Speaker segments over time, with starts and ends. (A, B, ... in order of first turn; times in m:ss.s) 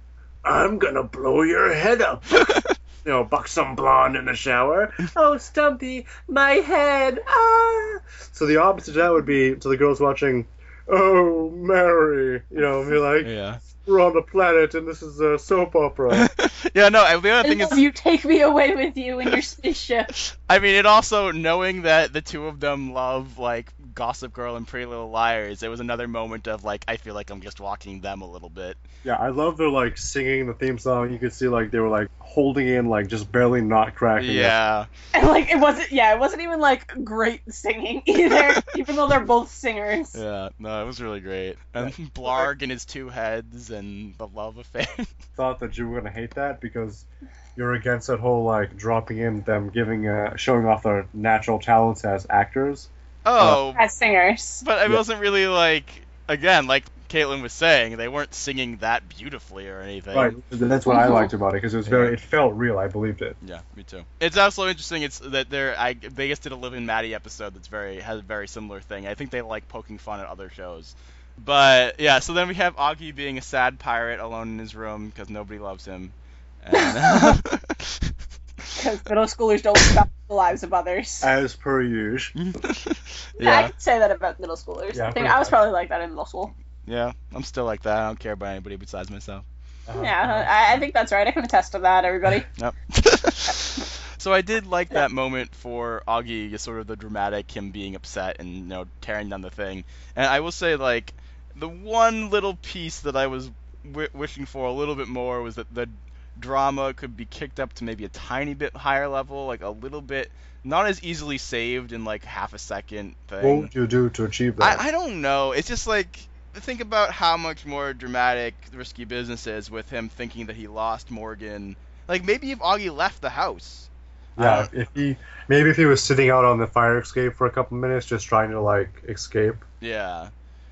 0:00.4-0:16.3 A
0:02.4-0:02.7 B
0:13.2-0:13.6 B
0:16.1-0:17.8 B
0:17.4-0:20.1 C
0:20.1-0:28.8 B
0:29.0-0:34.6 A
0:34.2-0:34.9 B
0:35.1-0:40.2 C
0:38.3-0:38.6 B
0:40.1-0:45.1 B
0:41.8-0:42.5 A
0:45.4-0:53.6 A
0:53.2-0:53.8 B
0:53.7-0:54.6 C
0:54.6-1:00.4 B
1:00.1-1:03.4 A
1:00.8-1:01.3 C
1:01.8-1:02.1 B
1:03.4-1:18.1 B
1:16.7-1:17.3 C
1:18.8-1:21.3 C
1:21.2-1:22.3 A
1:22.3-1:23.7 B
1:23.4-1:26.5 C
1:24.9-1:25.6 A
1:26.8-1:29.4 B
1:29.9-1:30.5 A
1:30.0-1:32.4 C
1:32.6-1:53.7 B
1:53.4-1:54.8 A
1:54.6-2:04.7 B
2:04.4-2:09.6 A
2:09.8-2:10.3 B